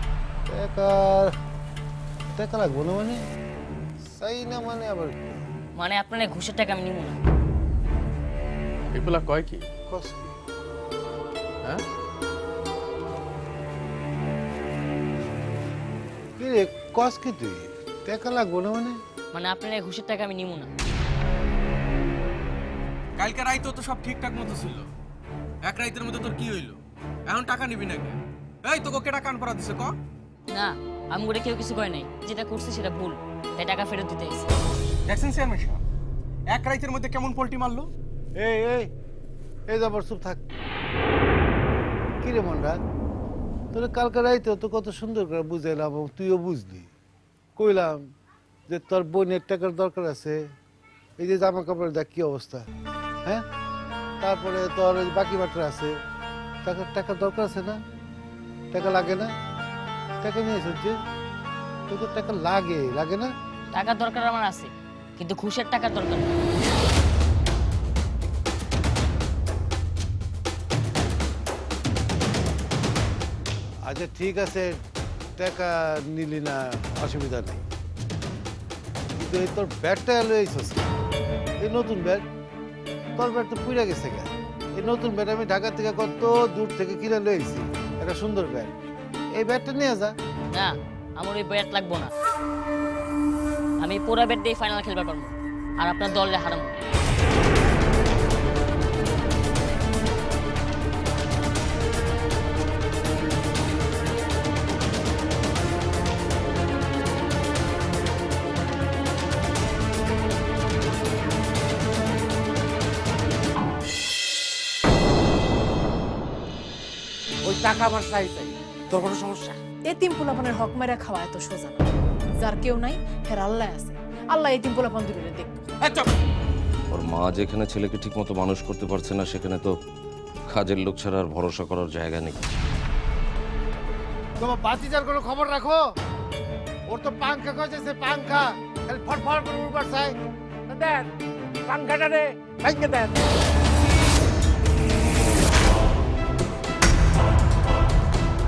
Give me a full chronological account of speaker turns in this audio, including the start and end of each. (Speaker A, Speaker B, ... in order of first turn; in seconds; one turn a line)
Speaker A: 0.5-1.3
Speaker A: 2.3-3.2
Speaker A: 4.1-5.2
Speaker B: 5.8-7.2
Speaker C: 8.9-9.7
Speaker A: 9.9-10.3
Speaker A: 16.4-19.0
Speaker B: 19.3-20.7
Speaker C: 23.2-24.9
Speaker C: 25.6-29.9
Speaker B: 30.5-34.5
Speaker C: 35.1-35.8
Speaker C: 36.5-37.9
Speaker A: 38.4-38.9
Speaker A: 39.7-40.5
Speaker A: 42.2-42.8
Speaker A: 43.7-46.9
Speaker A: 47.5-48.0
Speaker A: 48.7-50.4
Speaker A: 51.2-52.6
Speaker A: 54.2-56.0
Speaker A: 56.6-57.8
Speaker A: 58.7-59.3
Speaker A: 60.2-61.0
Speaker A: 61.9-63.3
Speaker B: 63.7-66.3
Speaker A: 73.9-74.7
Speaker A: 75.4-77.6
Speaker A: 79.2-80.9
Speaker A: 81.6-82.2
Speaker A: 83.2-88.7
Speaker A: 89.4-90.1
Speaker B: 90.5-92.1
Speaker B: 93.8-96.7
Speaker D: 117.4-119.6
Speaker E: 119.9-121.8
Speaker E: 122.4-125.7
Speaker D: 125.8-126.1
Speaker F: 126.9-129.7
Speaker F: 130.5-132.4
Speaker A: 134.4-135.8
Speaker D: 137.0-138.1
Speaker A: 137.2-140.1
Speaker D: 140.7-141.1
Speaker D: 141.7-143.3